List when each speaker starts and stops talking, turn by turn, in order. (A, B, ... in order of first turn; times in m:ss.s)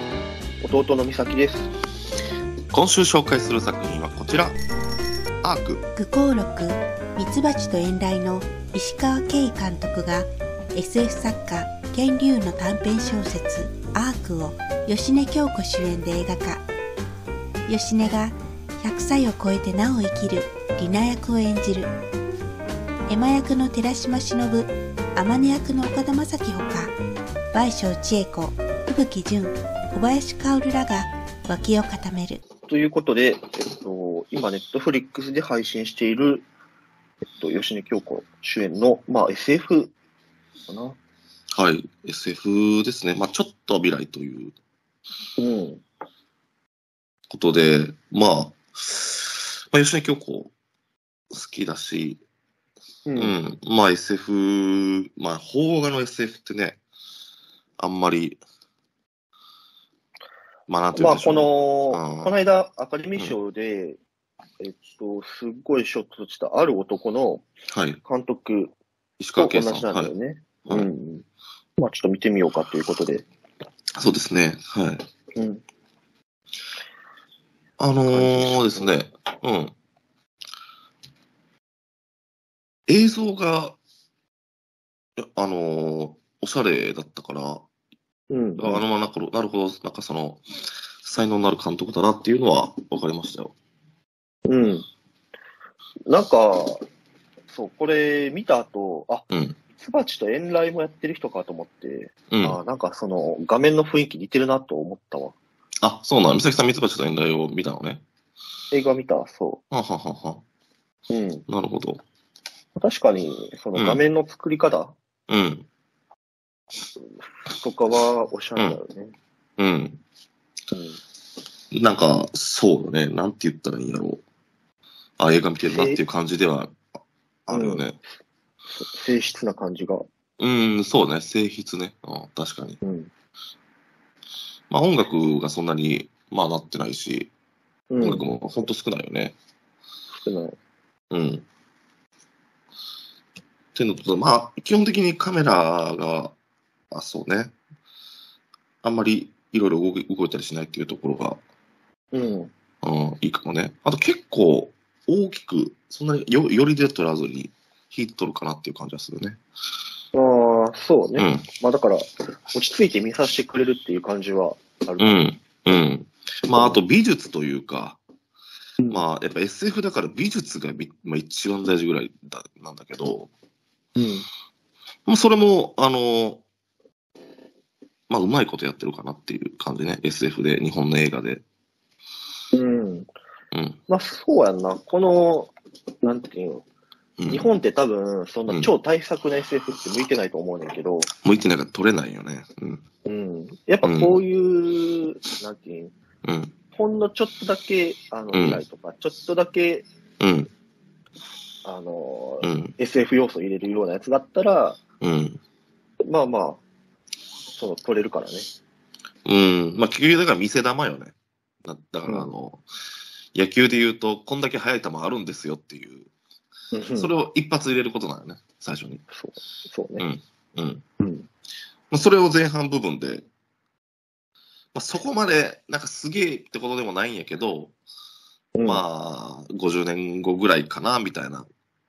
0:00.6-0:01.7 A
0:02.7-0:04.6 B
0:05.4-0:05.8 B
0:06.0-0:16.6 C
0:17.7-0:21.9 C
0:23.1-0:27.0 C
0:27.5-0:32.4 C
0:32.7-0:36.5 A
0:37.3-0:39.9 A
0:40.7-0:41.0 A
0:41.6-0:44.6 B
0:45.4-0:45.8 A
0:47.3-0:50.5 B
0:51.3-0:52.2 B
0:53.1-0:53.4 A
0:53.2-0:56.8 B
0:57.8-0:58.4 B
1:00.7-1:02.4 B
1:01.0-1:04.0 A
1:04.6-1:07.4 A
1:07.7-1:08.0 B
1:08.0-1:08.7 A
1:09.2-1:10.1 B
1:09.4-1:11.2 A
1:11.8-1:13.3 A
1:14.0-1:15.1 B
1:15.4-1:15.6 A
1:17.8-1:19.8 B
1:18.1-1:19.0 A
1:22.9-1:23.8 B
1:25.2-1:27.7 B
1:28.3-1:28.8 A
1:28.6-1:30.4 B
1:31.0-1:33.5 B
1:34.5-1:34.9 A
1:36.1-1:36.8 A
1:37.5-1:45.4 A
1:39.3-1:39.6 B
1:42.3-1:42.6 B
1:45.8-1:48.0 B
1:48.7-1:49.6 A
1:49.7-1:50.4 B
1:51.1-1:51.4 A
1:51.5-1:52.0 B
1:52.8-1:54.9 A
1:53.8-1:54.0 B
1:55.3-1:55.7 B
1:57.0-1:59.2 A
1:59.6-2:00.0 B
2:00.7-2:01.0 A
2:01.7-2:04.2 B
2:05.2-2:06.8 B
2:05.6-2:06.0 A
2:07.5-2:08.0 B
2:07.5-2:07.9 A
2:08.7-2:10.0 A
2:10.4-2:12.8 B
2:12.8-2:13.1 A
2:14.7-2:17.3 B
2:17.9-2:18.3 A
2:18.0-2:19.4 B
2:20.2-2:20.6 A
2:21.1-2:21.4 B
2:23.8-2:26.4 B
2:26.9-2:27.5 B
2:28.8-2:31.4 B
2:32.1-2:32.5 A
2:32.8-2:39.4 B
2:40.1-2:45.3 A
2:41.2-2:41.5 B
2:45.0-2:48.0 B
2:46.6-2:46.8 A
2:48.8-2:49.0 A
2:48.9-2:53.3 B
2:54.0-2:54.3 A
2:55.1-2:56.4 B
2:58.1-3:01.4 B
3:02.5-3:03.1 A
3:03.5-3:03.8 B
3:03.9-3:06.6 A
3:07.2-3:07.5 B
3:07.3-3:11.1 A
3:11.2-3:12.8 B
3:13.0-3:15.9 A
3:13.8-3:14.2 B
3:16.2-3:16.5 B
3:16.7-3:19.9 A
3:18.3-3:18.6 B
3:20.2-3:20.5 B
3:21.6-3:24.8 A
3:22.4-3:22.7 B
3:25.0-3:25.4 B
3:26.0-3:26.6 A
3:27.5-3:28.5 A
3:29.3-3:31.1 B
3:31.7-3:32.6 B
3:32.1-3:32.3 A
3:33.3-3:36.1 B
3:36.7-3:37.1 A
3:37.0-3:39.0 B
3:39.1-3:40.1 A
3:40.0-3:40.8 B
3:41.0-3:41.3 A
3:41.9-3:43.2 B
3:44.7-3:47.8 B
3:48.6-3:48.8 A
3:48.6-3:51.5 B